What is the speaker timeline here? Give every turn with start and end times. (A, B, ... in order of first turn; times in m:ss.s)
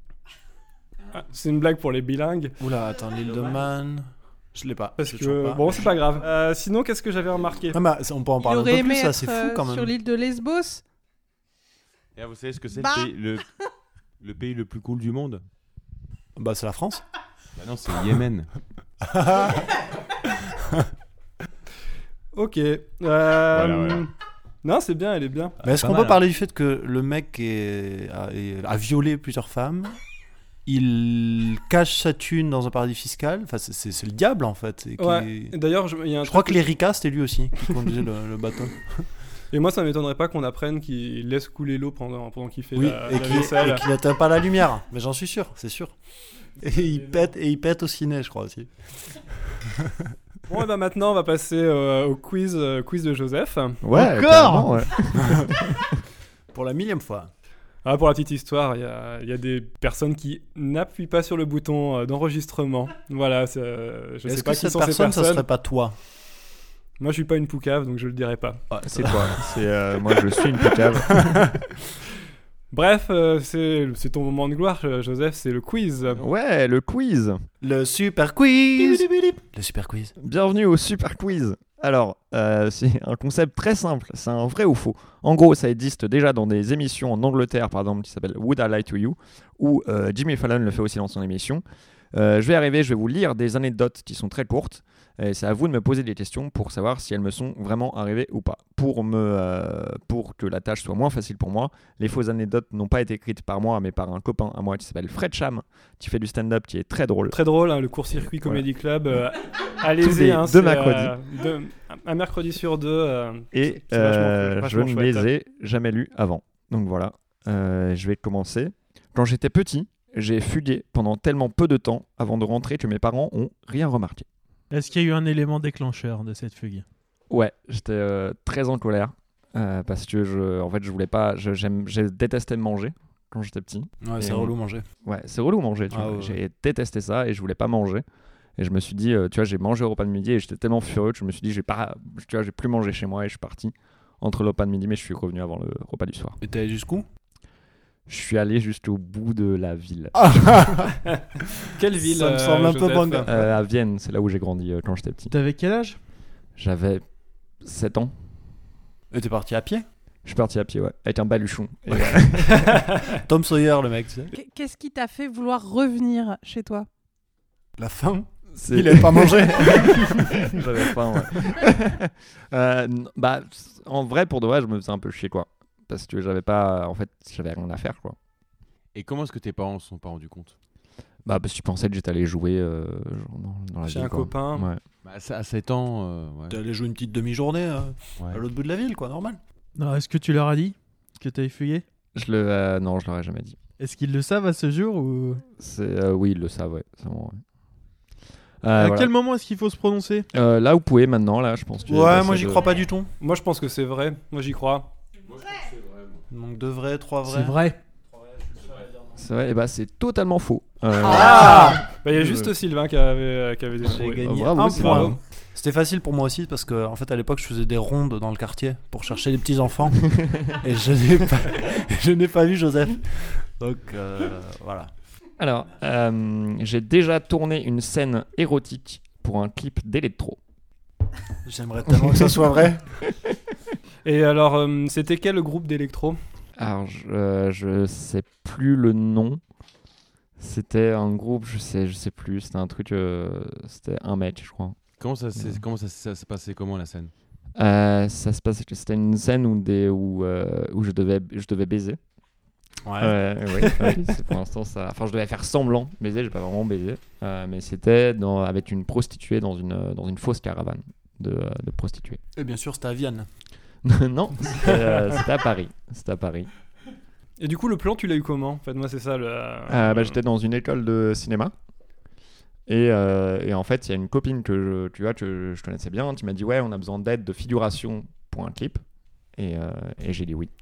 0:01.1-0:02.6 A
0:02.6-0:05.9 B
0:05.0-0:07.8 A
0:07.7-0:09.9 B
0:08.4-0:10.8 C
0:12.2-0:13.5 D
0:12.8-0:13.1 C
0:14.2-0:15.4 D
0:16.4-0:17.0 B
0:17.6-0:18.5 D
0:19.0-0:19.6 B
0:22.3-0:24.1 A
0:23.5-0:24.0 D
0:24.6-0:25.6 A
0:25.6-0:30.0 B
0:25.6-0:26.2 D
0:30.6-0:35.5 B
0:35.0-0:36.6 A
0:36.2-0:39.1 B
0:39.5-0:43.8 A
0:42.7-0:45.9 B
0:46.6-0:49.2 B
0:50.5-0:53.8 A
0:53.8-0:55.9 E
0:53.9-0:55.4 F
0:56.5-0:57.3 B
0:57.8-1:05.4 A
1:04.3-1:06.0 B
1:07.0-1:08.6 A
1:08.7-1:11.5 E
1:08.8-1:09.4 B
1:12.7-1:16.2 A
1:16.2-1:17.4 E
1:17.6-1:20.1 B
1:20.2-1:47.4 E
1:47.3-1:55.3 A
1:48.1-1:48.6 E
1:50.0-1:51.1 E
1:53.5-2:04.3 E
2:04.7-2:06.8 F
2:07.3-2:18.0 E
2:14.0-2:14.8 B
2:15.9-2:16.4 B
2:18.6-2:26.4 E
2:26.4-2:27.0 B
2:28.1-2:30.7 E
2:30.2-2:30.8 B
2:31.7-2:33.3 A
2:32.0-2:33.5 B
2:33.2-2:35.3 E
2:35.3-2:36.0 F
2:36.6-2:37.0 E
2:37.6-2:38.1 E
2:39.1-2:39.8 B
2:40.2-2:42.7 E
2:42.6-2:44.3 B
2:42.7-2:43.0 A
2:44.3-2:46.9 C
2:47.8-2:50.5 B
2:48.6-2:58.2 E
2:58.9-3:00.5 D
3:01.2-3:04.8 E
3:03.9-3:04.7 A
3:05.0-3:06.6 D
3:06.5-3:09.4 B
3:09.8-3:11.8 F
3:12.1-3:13.6 E
3:13.8-3:15.4 F
3:15.6-3:17.4 E
3:18.6-3:19.1 E
3:18.8-3:20.3 F
3:20.3-3:22.8 E
3:21.8-3:23.1 B
3:23.2-3:24.9 A
3:25.3-3:26.2 D
3:26.3-3:27.6 B
3:27.2-3:27.8 F
3:29.1-3:31.8 E
3:31.0-3:31.8 B
3:31.0-3:35.2 A
3:33.8-3:44.9 B
3:33.8-3:35.2 E
3:45.4-3:50.4 E
3:51.4-3:53.0 B
3:54.0-3:56.2 A
3:56.6-3:59.4 E
4:00.4-4:04.8 E
4:05.0-4:07.1 D
4:05.4-4:05.6 E
4:07.5-4:12.0 E
4:12.8-4:13.9 B
4:13.0-4:22.2 E
4:22.3-4:23.3 B
4:23.8-4:26.5 E
4:27.4-4:30.2 A
4:29.7-4:31.5 E
4:32.7-4:38.8 E
4:39.4-4:40.5 E